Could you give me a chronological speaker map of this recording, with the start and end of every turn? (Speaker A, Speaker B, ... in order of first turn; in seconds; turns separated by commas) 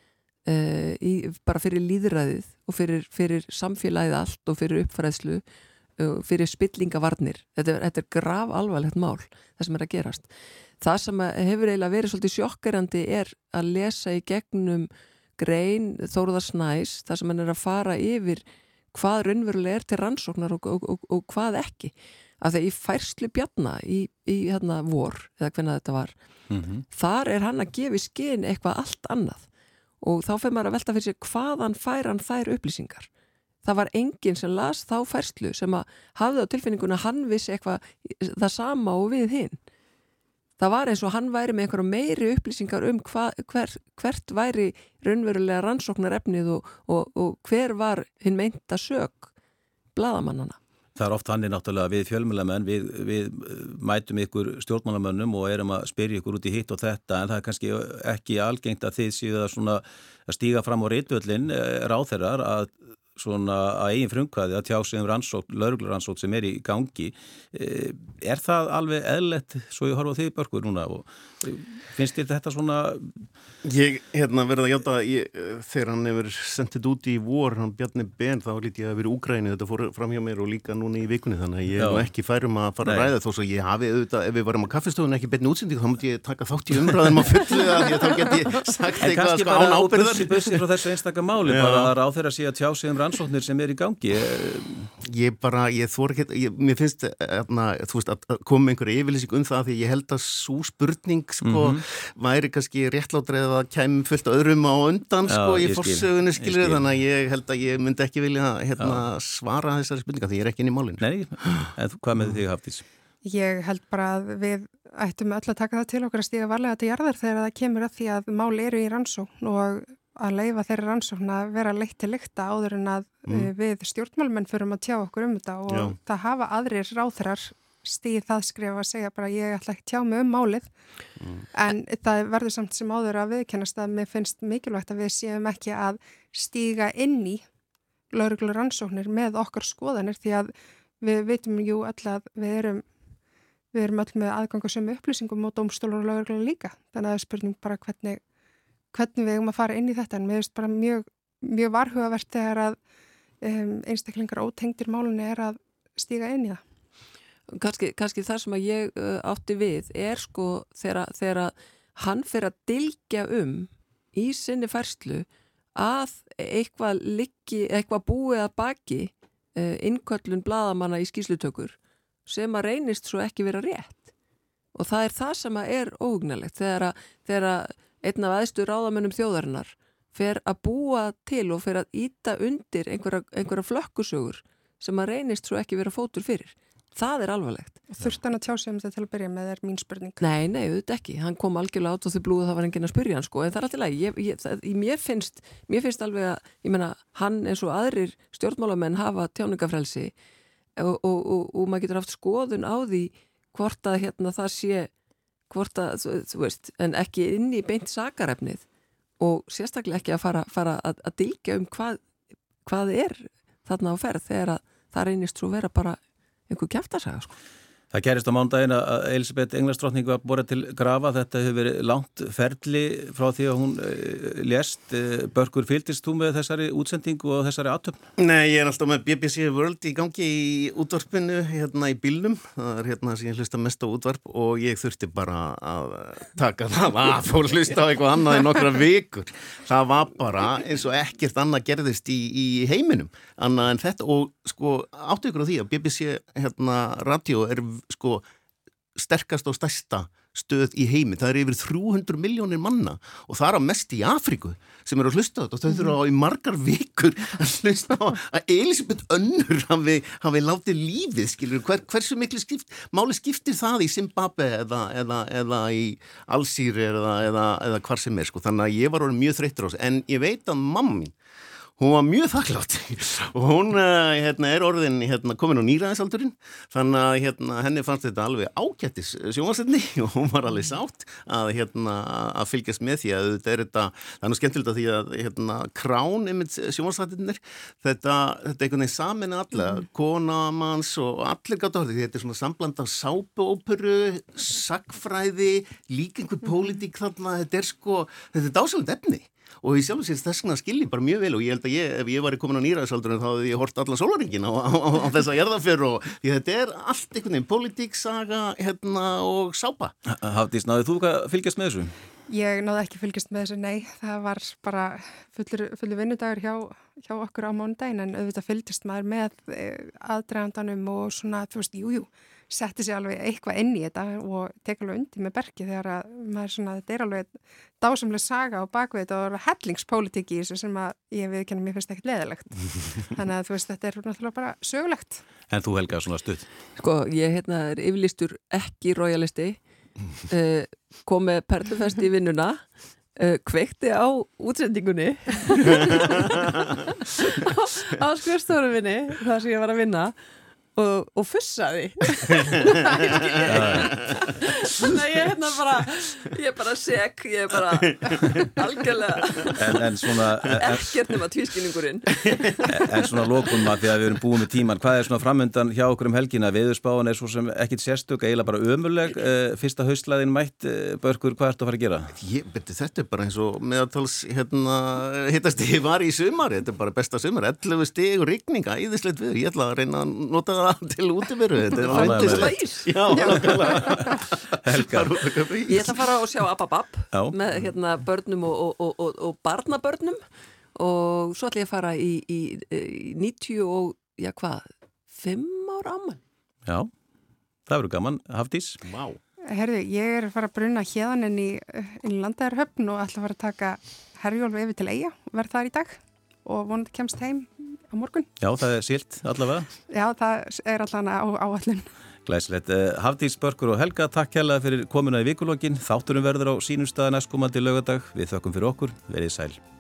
Speaker A: 0.5-5.4, Speaker A: 6.0-10.3, Speaker A: 10.8-26.1, Speaker B: 26.5-26.8, Speaker A: 26.9-29.5, Speaker A: 30.0-33.1, Speaker A: 33.6-39.6, Speaker A: 40.6-49.3, Speaker A: 50.0-50.6, Speaker B: 51.0-73.3, Speaker C: 73.6-90.6, Speaker B: 81.8-82.1, Speaker B: 82.8-83.1, Speaker B: 89.0-94.9, Speaker C: 91.5-91.9, Speaker C: 95.0-111.7, Speaker B: 101.4-101.8, Speaker B: 105.2-106.8, Speaker B: 108.8-109.0, Speaker B: 111.0-112.8, Speaker D: 113.2-130.7, Speaker C: 123.3-123.5, Speaker C: 125.7-126.0, Speaker C: 131.2-131.5, Speaker D: 131.5-137.4, Speaker D: 138.1-142.9, Speaker D: 143.7-148.2, Speaker D: 148.9-152.8, Speaker D: 153.4-156.6, Speaker A: 157.5-174.1, Speaker A: 174.7-187.8, Speaker D: 187.9-190.2, Speaker A: 190.2-200.1, Speaker A: 200.8-204.9, Speaker A: 205.5-208.7, Speaker A: 209.2-212.0, Speaker A: 212.7-217.4, Speaker B: 217.9-228.0, Speaker C: 228.2-248.2, Speaker C: 248.9-271.1, Speaker C: 271.8-309.9, Speaker B: 310.1-311.9, Speaker D: 312.3-335.2, Speaker B: 335.5-336.5, Speaker A: 336.8-339.6, Speaker A: 340.2-342.6, Speaker A: 343.2-350.1, Speaker A: 350.8-362.8, Speaker C: 352.9-354.3, Speaker B: 353.5-354.0, Speaker C: 357.8-358.6, Speaker B: 359.6-360.9, Speaker C: 362.2-362.5, Speaker B: 362.7-372.1, Speaker C: 372.1-386.0, Speaker A: 381.9-383.6, Speaker B: 381.9-385.4, Speaker D: 383.2-383.9, Speaker A: 385.7-390.2, Speaker A: 390.8-396.2, Speaker B: 397.7-398.8, Speaker C: 398.8-399.2, Speaker D: 399.5-408.3, Speaker B: 408.4-409.7, Speaker D: 409.9-411.9, Speaker B: 412.3-419.6